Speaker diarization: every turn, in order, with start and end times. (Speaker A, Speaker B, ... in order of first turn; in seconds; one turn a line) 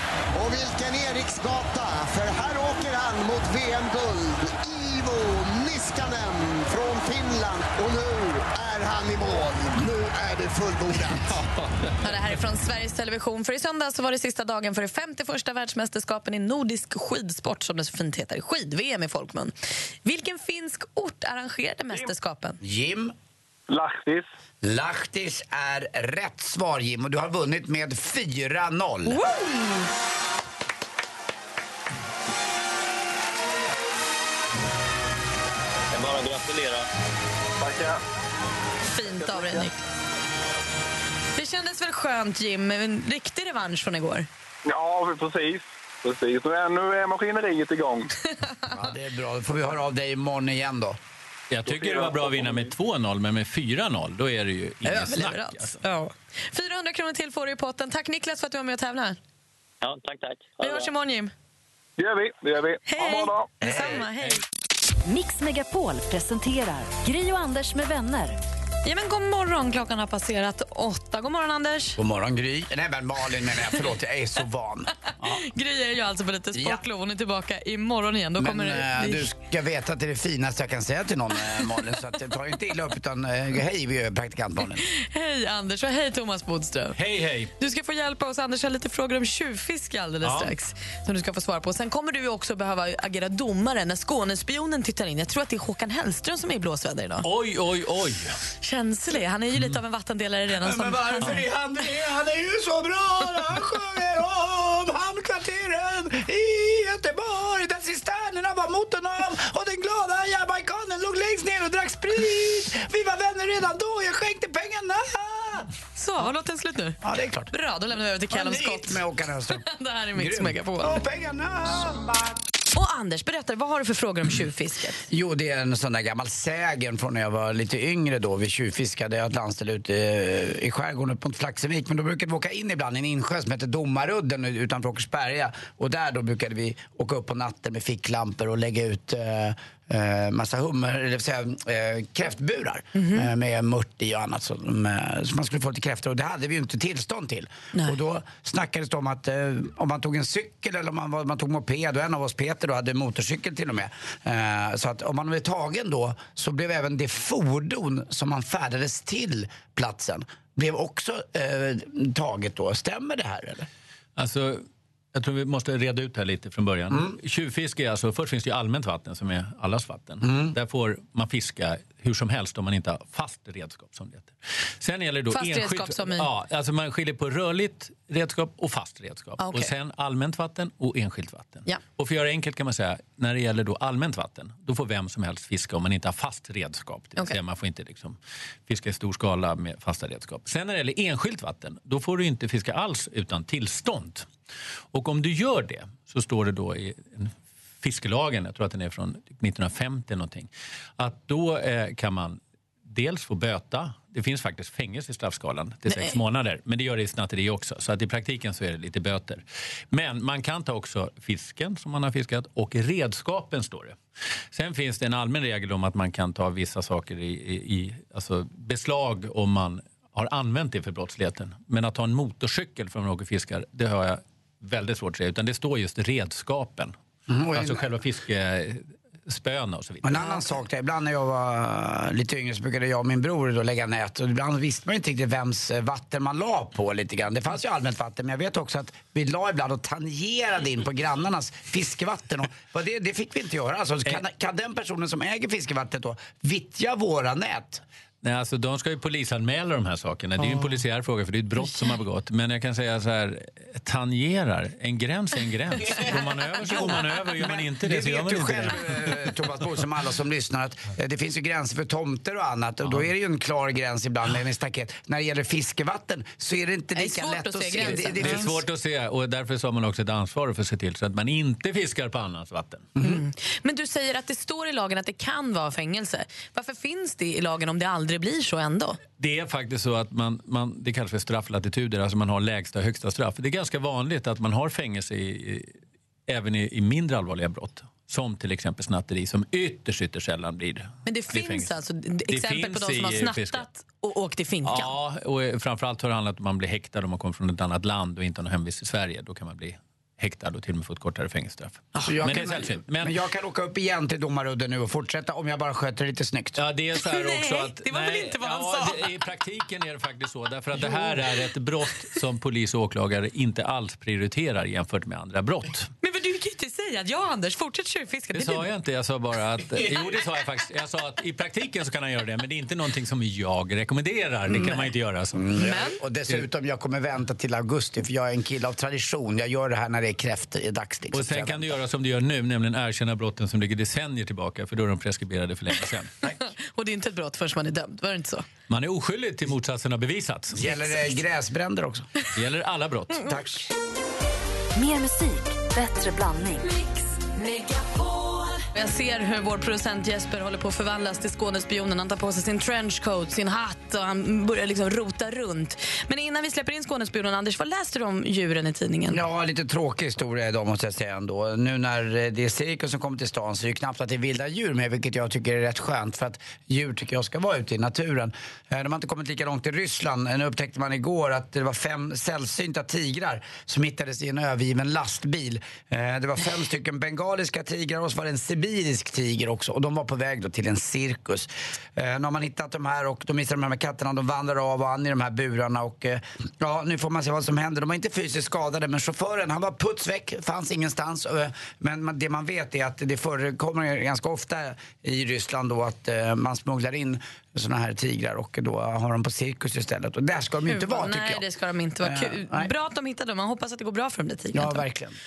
Speaker A: 0.3-11.4
Speaker B: 12.0-19.5
Speaker B: 20.0-22.6
Speaker C: 22.6-23.1
Speaker D: 23.7-24.2
Speaker C: 24.6-29.2
Speaker B: 29.1-29.8
Speaker E: 35.9-36.9
Speaker D: 37.6-38.0
Speaker B: 38.9-39.8
Speaker D: 39.2-39.6
Speaker B: 41.4-44.3
Speaker D: 44.6-48.1
Speaker C: 48.7-51.0
Speaker F: 51.5-55.8
Speaker D: 51.7-52.6
Speaker B: 54.8-59.2
Speaker E: 59.8-60.9
Speaker B: 60.6-61.3
Speaker D: 62.0-63.5
Speaker B: 62.9-64.4
Speaker C: 63.7-64.0
Speaker G: 65.0-68.4
Speaker B: 68.8-72.0
Speaker C: 72.0-75.4
Speaker B: 75.3-79.2
Speaker C: 76.5-76.8
Speaker C: 78.4-84.8
Speaker B: 84.8-87.0
Speaker F: 86.9-87.5
Speaker B: 87.6-97.3
Speaker F: 90.2-90.5
Speaker F: 97.2-98.3
Speaker B: 98.6-101.4
Speaker C: 100.6-115.7
Speaker B: 116.0-117.0
Speaker C: 117.0-117.5
Speaker B: 117.5-121.0
Speaker C: 118.3-122.4
Speaker B: 122.7-125.0
Speaker C: 125.1-163.7
Speaker B: 142.9-143.3
Speaker F: 164.2-194.3
Speaker C: 170.2-170.5
Speaker B: 175.3-176.3
Speaker B: 179.4-179.7
Speaker F: 194.9-214.0
Speaker B: 205.9-206.2
Speaker F: 214.5-226.9
Speaker C: 227.3-227.8
Speaker F: 227.5-230.2
Speaker C: 230.0-247.8
Speaker F: 248.2-258.8
Speaker C: 256.7-268.6
Speaker B: 266.9-268.5
Speaker F: 268.1-272.9
Speaker B: 273.0-279.0
Speaker F: 279.2-285.7
Speaker F: 286.3-291.8
Speaker B: 291.1-294.9
Speaker F: 292.3-293.6
Speaker F: 294.6-303.1
Speaker B: 301.9-302.4
Speaker C: 302.1-306.6
Speaker F: 306.6-315.9
Speaker B: 307.0-309.1
Speaker B: 316.0-318.7
Speaker F: 318.3-325.4
Speaker C: 325.3-331.7
Speaker B: 325.6-326.0
Speaker F: 331.1-336.1
Speaker B: 336.3-338.5
Speaker F: 338.7-340.8
Speaker C: 340.5-342.1
Speaker F: 342.3-343.3
Speaker C: 343.3-343.7
Speaker G: 344.8-346.7
Speaker B: 348.7-359.2
Speaker C: 359.1-401.4
Speaker B: 400.7-404.8
Speaker C: 402.0-402.7
Speaker C: 404.5-405.2